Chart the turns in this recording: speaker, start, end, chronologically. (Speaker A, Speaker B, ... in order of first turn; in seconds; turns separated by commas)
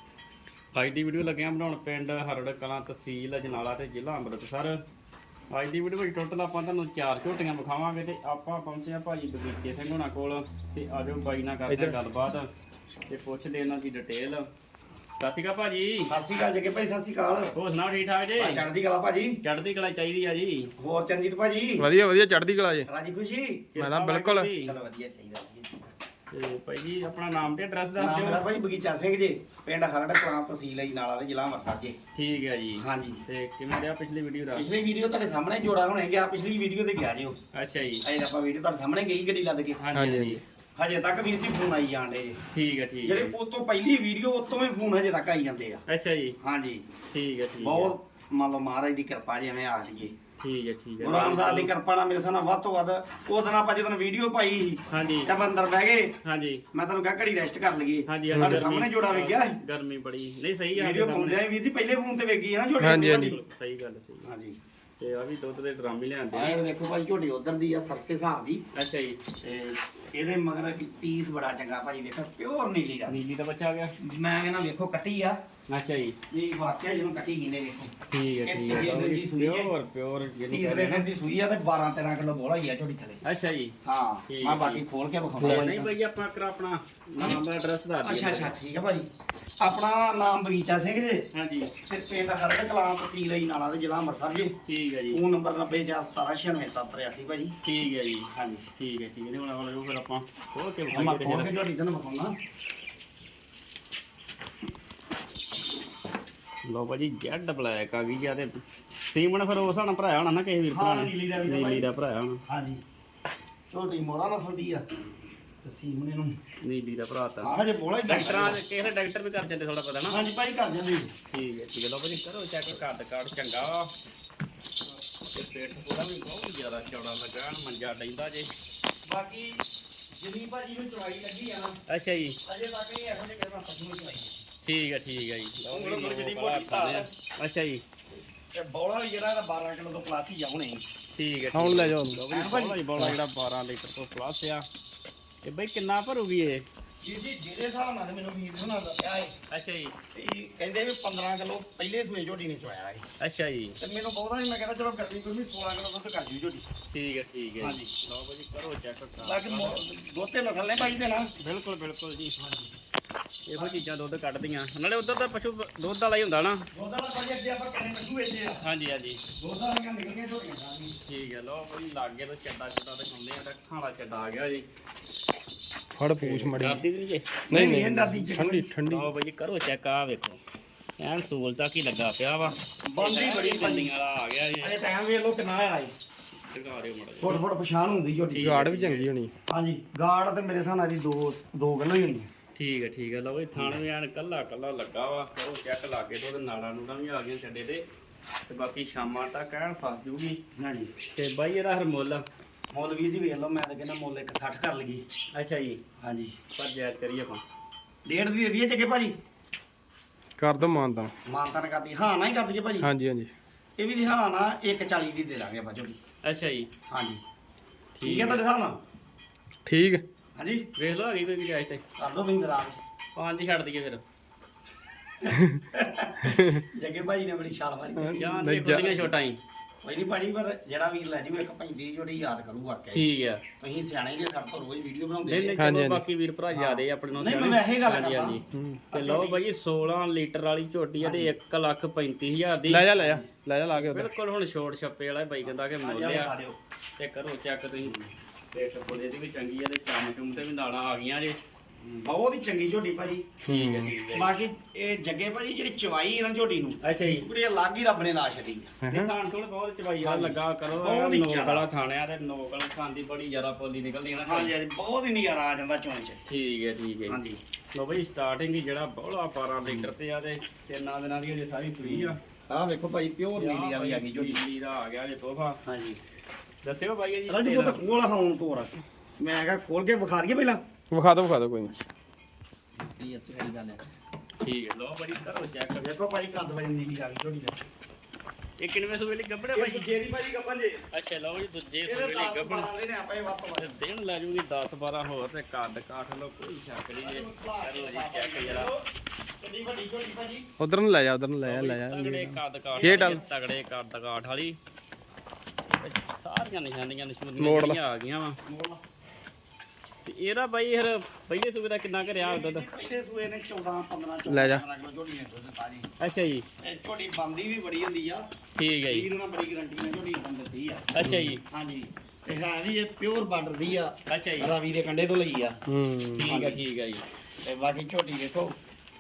Speaker A: 0.7-4.8, Speaker A: 5.5-12.5, Speaker A: 13.1-14.4, Speaker A: 15.2-16.1, Speaker B: 16.1-17.5, Speaker A: 17.5-18.6, Speaker B: 18.4-19.4, Speaker A: 19.4-20.7, Speaker B: 20.8-21.9, Speaker C: 21.8-22.9, Speaker B: 22.9-23.7, Speaker A: 23.8-24.8, Speaker C: 23.8-24.5, Speaker B: 24.7-25.9, Speaker A: 26.3-28.4, Speaker B: 28.0-31.9, Speaker A: 32.1-34.7, Speaker B: 32.8-33.2, Speaker B: 34.5-37.3, Speaker A: 37.5-38.0, Speaker B: 38.0-39.8, Speaker A: 39.8-40.4, Speaker C: 40.0-40.4, Speaker B: 40.8-42.4, Speaker A: 42.5-43.3, Speaker B: 43.1-45.8, Speaker A: 45.9-46.4, Speaker B: 46.4-46.8, Speaker A: 47.1-47.9, Speaker B: 47.6-50.1, Speaker A: 50.4-51.7, Speaker B: 51.0-56.1, Speaker A: 54.9-55.3, Speaker A: 56.2-56.6, Speaker B: 56.7-59.6, Speaker A: 58.1-61.4, Speaker C: 58.3-58.7, Speaker B: 60.8-63.3, Speaker C: 62.8-63.4, Speaker A: 63.1-64.3, Speaker B: 64.3-64.6, Speaker A: 65.0-66.6, Speaker B: 66.3-68.6, Speaker A: 68.7-69.2, Speaker B: 69.4-73.2, Speaker A: 73.1-73.9, Speaker B: 74.0-75.4, Speaker A: 75.7-76.2, Speaker B: 76.3-77.9, Speaker A: 78.1-81.0, Speaker B: 78.5-79.7, Speaker B: 80.5-83.2, Speaker A: 83.2-83.7, Speaker B: 83.8-85.6, Speaker A: 84.3-84.8, Speaker A: 85.4-88.5, Speaker C: 85.4-85.9, Speaker B: 88.0-89.1, Speaker B: 89.6-91.2, Speaker A: 91.3-91.7, Speaker B: 91.8-94.5, Speaker A: 94.6-95.2, Speaker B: 95.2-97.5, Speaker A: 97.6-101.5, Speaker B: 98.3-98.6, Speaker B: 100.9-102.3, Speaker A: 106.6-112.4, Speaker B: 110.7-111.8, Speaker B: 112.5-112.8, Speaker B: 113.7-114.8, Speaker B: 115.6-116.4, Speaker A: 116.6-117.5, Speaker B: 117.5-118.6, Speaker A: 118.1-120.2, Speaker B: 120.1-121.1, Speaker A: 121.3-123.9, Speaker A: 125.3-128.5, Speaker B: 129.0-129.6, Speaker B: 130.2-131.7, Speaker A: 131.9-132.4, Speaker B: 132.5-134.4, Speaker A: 134.6-137.8, Speaker B: 135.7-137.1, Speaker B: 138.5-140.8, Speaker A: 141.1-144.7, Speaker C: 141.5-142.2, Speaker B: 142.4-142.7, Speaker A: 145.4-146.6, Speaker B: 147.0-149.3, Speaker A: 149.5-149.9, Speaker B: 150.1-153.0, Speaker A: 153.2-153.8, Speaker B: 153.8-156.6, Speaker A: 156.9-159.8, Speaker B: 157.6-157.9, Speaker B: 159.2-161.3, Speaker A: 161.4-162.3, Speaker B: 162.4-162.7, Speaker A: 163.5-166.6, Speaker B: 166.7-168.6, Speaker A: 168.6-169.2, Speaker B: 169.4-170.9, Speaker A: 171.1-174.7, Speaker C: 175.9-176.8, Speaker A: 176.2-177.4, Speaker C: 177.5-179.1, Speaker B: 177.5-178.7, Speaker A: 178.8-180.4, Speaker A: 181.0-184.8, Speaker B: 182.9-183.9, Speaker B: 184.6-185.9, Speaker A: 186.5-187.4, Speaker B: 187.2-188.5, Speaker A: 188.3-189.1, Speaker C: 188.4-189.3, Speaker B: 189.5-192.3, Speaker A: 192.6-197.8, Speaker A: 198.5-200.4, Speaker B: 200.6-200.9, Speaker A: 201.1-202.2, Speaker B: 202.7-205.0, Speaker A: 205.3-205.8, Speaker B: 206.0-206.4, Speaker A: 206.5-207.4, Speaker B: 208.1-209.1, Speaker C: 210.4-211.1, Speaker B: 211.2-212.9, Speaker C: 212.8-213.3, Speaker B: 213.8-216.0, Speaker A: 216.2-216.7, Speaker B: 216.9-217.2, Speaker A: 218.0-218.4, Speaker B: 218.1-218.8, Speaker C: 219.7-220.0, Speaker B: 220.4-220.6, Speaker A: 220.8-221.8, Speaker B: 222.0-222.8, Speaker A: 223.2-224.0, Speaker B: 225.2-229.1, Speaker C: 225.3-225.6, Speaker C: 226.2-226.6, Speaker C: 228.0-229.0, Speaker A: 228.2-229.4, Speaker B: 229.8-233.0, Speaker A: 232.9-233.4, Speaker B: 233.6-235.6, Speaker A: 235.2-242.9, Speaker C: 235.6-236.0, Speaker B: 236.5-238.4, Speaker C: 238.5-238.8, Speaker B: 239.0-239.4, Speaker C: 242.7-244.1, Speaker A: 243.7-246.3, Speaker B: 245.8-246.6, Speaker A: 247.0-247.9, Speaker A: 248.5-251.4, Speaker B: 251.8-253.3, Speaker C: 253.4-253.9, Speaker A: 253.5-254.3, Speaker B: 254.2-258.8, Speaker A: 256.8-257.2, Speaker C: 258.8-259.1, Speaker A: 258.9-264.6, Speaker B: 260.0-261.6, Speaker B: 264.2-266.2, Speaker A: 266.3-267.2, Speaker B: 267.1-267.4, Speaker A: 267.7-272.2, Speaker B: 271.8-274.4, Speaker A: 273.4-275.6, Speaker B: 275.6-276.0, Speaker A: 276.6-277.8, Speaker B: 277.3-280.6, Speaker C: 280.9-281.7, Speaker B: 282.8-283.7, Speaker A: 284.4-285.9, Speaker B: 285.8-287.6, Speaker A: 288.6-289.9, Speaker B: 289.5-290.8, Speaker A: 290.9-292.7, Speaker B: 291.9-293.6, Speaker A: 293.6-298.7, Speaker B: 297.0-298.8, Speaker B: 299.4-300.5, Speaker C: 300.6-303.2, Speaker A: 301.4-304.6, Speaker B: 302.8-303.1, Speaker A: 305.8-308.4, Speaker C: 307.4-307.8, Speaker B: 308.4-308.8, Speaker A: 310.1-312.7, Speaker B: 312.2-315.9, Speaker C: 314.3-314.6, Speaker A: 316.0-316.4, Speaker B: 316.6-318.3, Speaker A: 318.6-319.1, Speaker B: 319.0-320.9, Speaker A: 320.9-321.4, Speaker C: 321.0-321.3, Speaker B: 321.5-325.6, Speaker A: 324.1-324.5, Speaker C: 325.7-326.3, Speaker A: 326.1-327.0, Speaker B: 327.4-328.5